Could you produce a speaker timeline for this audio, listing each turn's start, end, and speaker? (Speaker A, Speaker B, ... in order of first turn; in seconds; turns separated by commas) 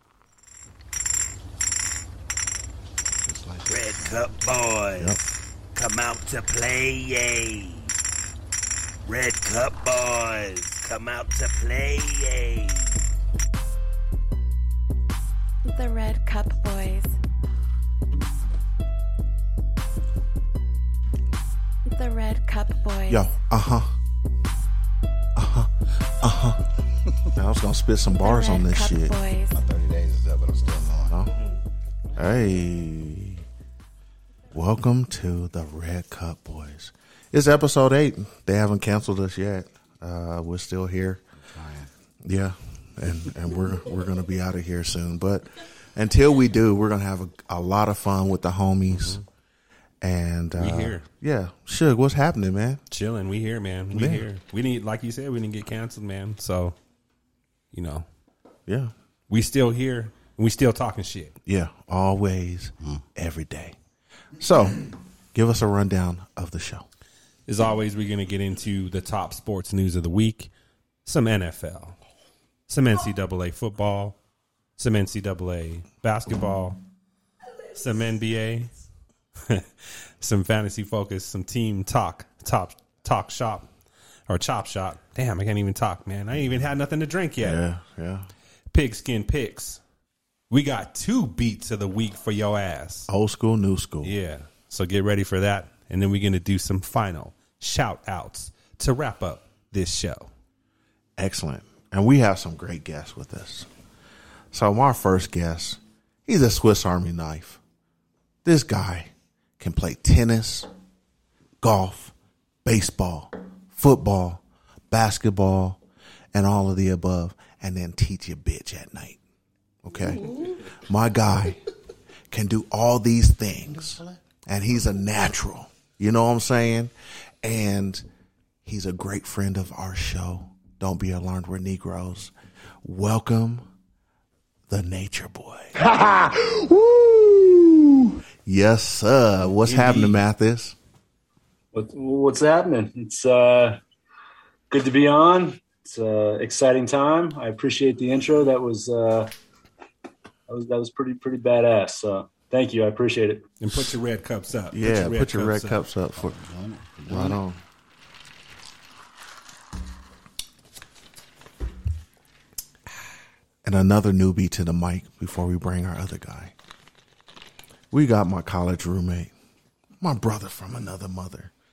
Speaker A: 3.2-4.5, Speaker B: 3.7-5.2, Speaker B: 5.7-7.9, Speaker B: 9.0-13.0, Speaker C: 15.7-17.1, Speaker C: 21.9-23.3, Speaker D: 23.1-23.9, Speaker D: 25.4-26.6, Speaker D: 27.3-29.2, Speaker C: 28.2-29.5, Speaker A: 29.5-31.2, Speaker D: 32.2-33.4, Speaker D: 34.5-41.2, Speaker A: 41.5-41.9, Speaker D: 42.2-49.2, Speaker E: 48.9-49.2, Speaker D: 50.0-52.8, Speaker E: 50.6-51.0, Speaker E: 52.9-56.8, Speaker D: 53.9-54.2, Speaker E: 57.7-58.0, Speaker D: 58.7-58.9, Speaker E: 59.3-61.3, Speaker D: 61.5-63.8, Speaker D: 64.4-66.8, Speaker E: 67.5-70.5, Speaker E: 71.0-72.0, Speaker E: 72.7-74.2, Speaker E: 74.8-76.8, Speaker E: 77.8-78.7, Speaker E: 80.2-83.7, Speaker E: 84.3-87.6, Speaker D: 87.4-88.3, Speaker E: 88.7-89.8, Speaker E: 90.5-93.1, Speaker D: 93.1-94.1, Speaker E: 94.0-100.3, Speaker D: 101.2-103.7, Speaker D: 104.5-107.6, Speaker D: 108.4-110.7, Speaker D: 111.6-112.1, Speaker D: 112.6-115.8, Speaker D: 116.3-119.2, Speaker D: 119.8-121.6, Speaker D: 122.3-126.9, Speaker D: 127.4-128.0, Speaker D: 128.7-132.3, Speaker D: 132.8-133.7, Speaker D: 134.7-137.7, Speaker D: 138.4-140.8, Speaker E: 139.6-140.2, Speaker F: 141.7-143.8, Speaker F: 144.7-149.3, Speaker F: 150.5-153.4, Speaker E: 153.6-155.8, Speaker D: 154.7-156.4, Speaker A: 156.2-157.4, Speaker D: 157.1-157.6, Speaker D: 163.6-166.5, Speaker D: 167.9-169.3, Speaker D: 170.0-171.5